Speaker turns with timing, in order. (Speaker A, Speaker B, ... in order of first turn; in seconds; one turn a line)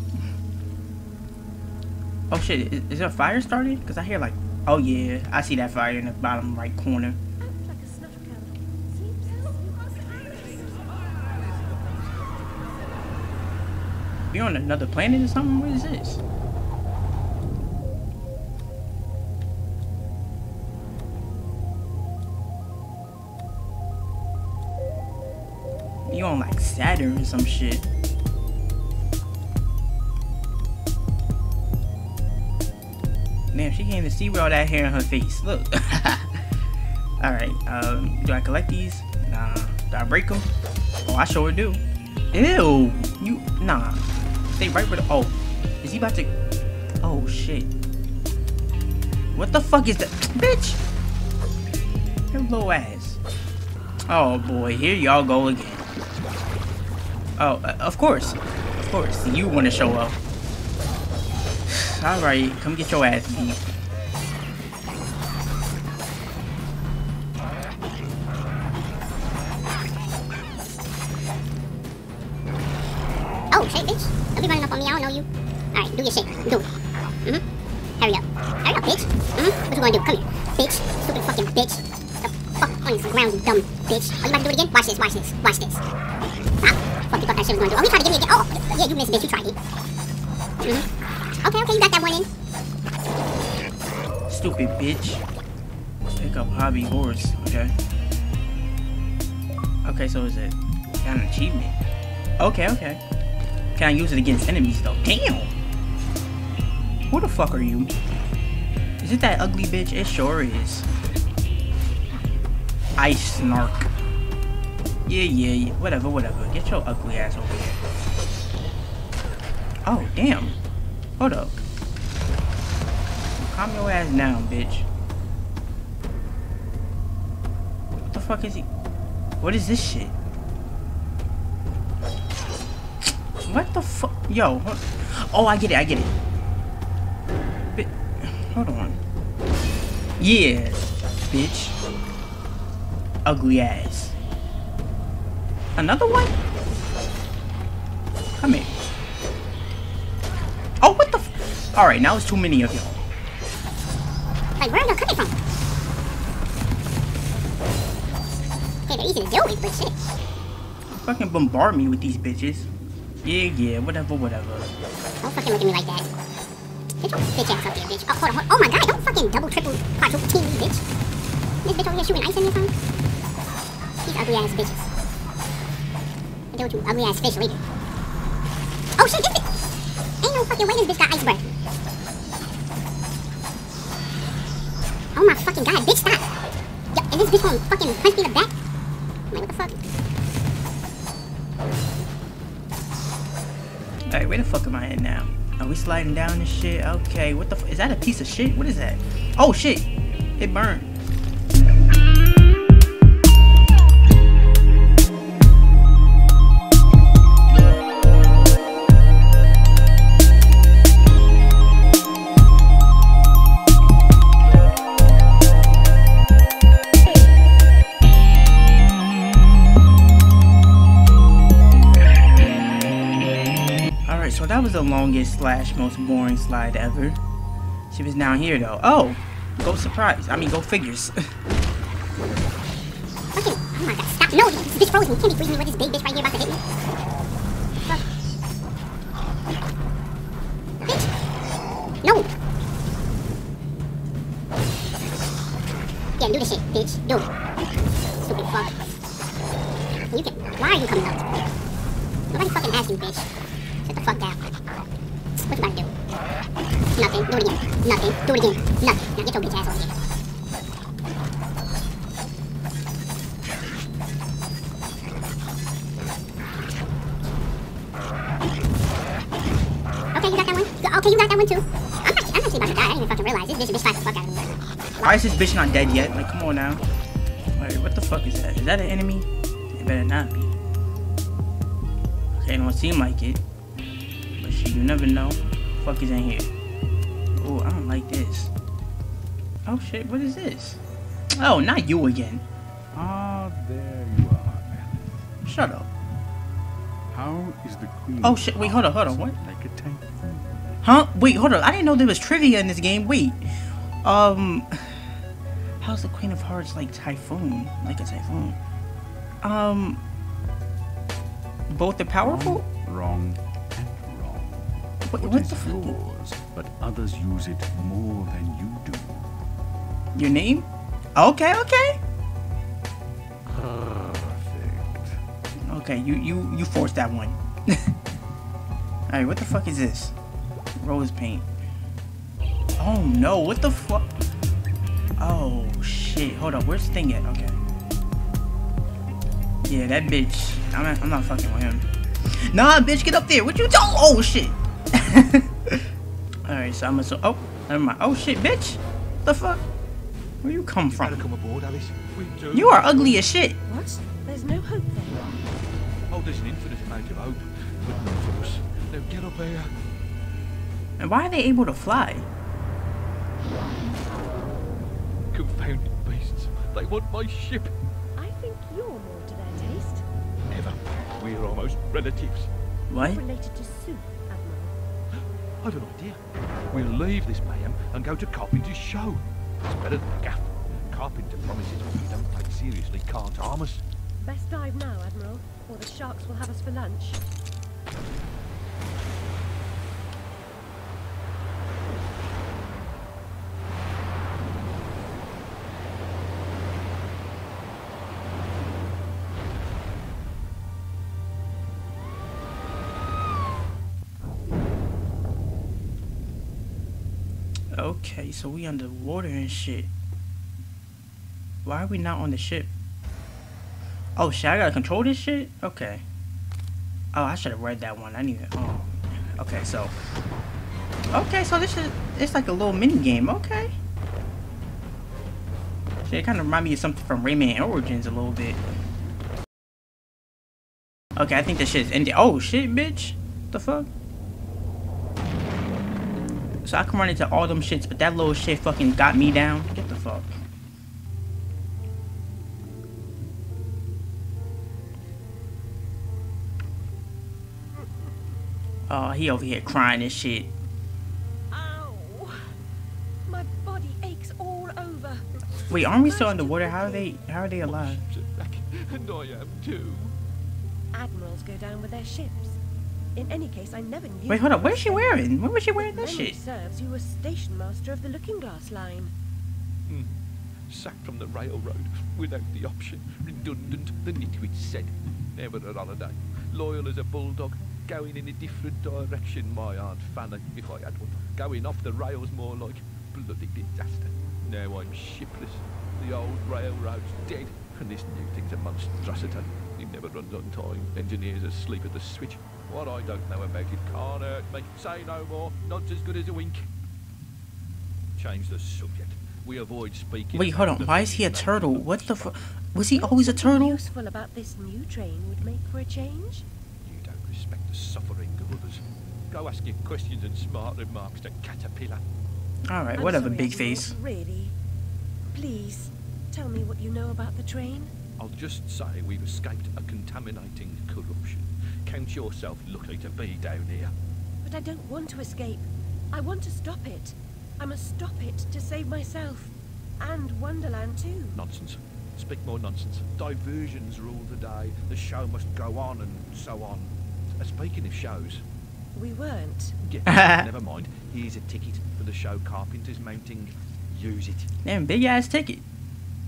Speaker A: 2.3-7.2
Speaker B: 7.4-10.8
Speaker A: 14.3-16.2
Speaker A: 26.1-27.9
Speaker A: 33.5-36.4
Speaker A: 37.2-40.5
Speaker A: 41.0-41.8
Speaker A: 42.3-44.0
Speaker A: 44.5-46.3
Speaker A: 47.0-47.7
Speaker A: 49.3-50.8
Speaker A: 52.3-53.2
Speaker A: 54.1-55.9
Speaker A: 57.4-60.2
Speaker A: 61.7-63.6
Speaker C: 73.5-76.7
Speaker C: 78.0-85.8
Speaker C: 86.6-89.5
Speaker C: 91.4-92.3
Speaker A: 94.3-95.2
Speaker A: 96.2-97.7
Speaker A: 99.8-101.8
Speaker A: 102.4-103.0
Speaker A: 103.8-105.5
Speaker A: 107.1-107.9
Speaker A: 109.0-110.9
Speaker A: 113.0-113.9
Speaker A: 115.0-117.8
Speaker A: 119.8-120.6
Speaker A: 121.2-121.6
Speaker A: 123.4-124.9
Speaker A: 128.0-128.7
Speaker A: 129.4-130.1
Speaker A: 133.4-136.1
Speaker A: 137.6-139.0
Speaker A: 140.2-141.8
Speaker A: 143.2-144.2
Speaker A: 145.8-146.3
Speaker A: 148.4-148.8
Speaker A: 150.8-153.0
Speaker C: 154.6-155.3
Speaker C: 158.9-160.0
Speaker A: 160.9-162.7
Speaker A: 163.2-164.7
Speaker C: 165.2-166.1
Speaker C: 167.0-170.8
Speaker C: 171.6-172.7
Speaker C: 174.0-174.9
Speaker C: 176.5-177.6
Speaker C: 179.0-179.5
Speaker C: 180.2-181.5
Speaker C: 185.1-186.3
Speaker C: 186.9-188.5
Speaker C: 189.3-189.8
Speaker A: 194.1-200.9
Speaker A: 224.1-227.2
Speaker A: 227.9-231.2
Speaker C: 233.3-236.6
Speaker C: 242.0-242.3
Speaker C: 246.2-247.3
Speaker C: 248.1-248.7
Speaker C: 250.1-251.3
Speaker C: 252.3-253.3
Speaker C: 253.8-254.4
Speaker C: 255.4-255.9
Speaker C: 256.9-259.9
Speaker C: 270.1-275.1
Speaker A: 275.0-276.8
Speaker A: 277.6-280.5
Speaker A: 282.3-283.4
Speaker A: 284.4-286.5
Speaker A: 287.4-288.5
Speaker A: 289.6-290.8
Speaker A: 291.4-292.4
Speaker D: 292.9-295.2
Speaker A: 295.4-295.9
Speaker D: 297.1-300.8
Speaker A: 298.2-299.4
Speaker A: 300.8-303.4
Speaker A: 304.0-304.9
Speaker A: 305.8-308.6
Speaker A: 309.4-310.0
Speaker A: 311.7-312.6
Speaker D: 312.2-319.3
Speaker A: 315.1-316.0
Speaker A: 320.1-322.0
Speaker D: 323.5-325.2
Speaker A: 325.7-327.9
Speaker A: 329.1-330.1
Speaker A: 330.8-331.4
Speaker A: 332.8-334.1
Speaker A: 335.2-337.6
Speaker A: 339.6-345.8
Speaker A: 346.4-349.6
Speaker A: 350.4-351.2
Speaker E: 350.9-353.2
Speaker A: 352.5-353.6
Speaker B: 353.6-355.3
Speaker E: 356.1-359.7
Speaker A: 361.0-362.3
Speaker E: 365.3-367.7
Speaker B: 368.2-370.0
Speaker E: 370.5-372.5
Speaker A: 372.9-373.2
Speaker B: 373.0-374.7
Speaker E: 375.6-376.2
Speaker E: 376.7-383.8
Speaker B: 384.2-387.2
Speaker A: 407.7-409.9
Speaker A: 411.6-412.7
Speaker A: 414.2-416.0
Speaker A: 417.1-419.9
Speaker A: 421.1-423.8
Speaker A: 426.1-428.6
Speaker A: 431.1-433.9
Speaker A: 436.6-440.4
Speaker A: 448.9-450.5
Speaker B: 451.5-452.4
Speaker B: 453.3-457.1
Speaker A: 455.7-458.0
Speaker E: 457.6-460.2
Speaker B: 460.9-462.6
Speaker B: 463.1-469.1
Speaker A: 464.3-466.4
Speaker E: 469.9-470.1
Speaker E: 470.7-496.6
Speaker E: 498.2-502.3
Speaker A: 500.3-503.8
Speaker B: 502.9-506.4
Speaker E: 506.8-512.0
Speaker A: 512.7-514.0
Speaker B: 512.9-514.5
Speaker B: 515.3-517.9
Speaker E: 518.2-523.9
Speaker B: 524.4-531.4
Speaker E: 531.3-538.4
Speaker B: 538.9-539.8
Speaker E: 539.8-544.5
Speaker A: 540.1-540.5
Speaker A: 544.6-545.6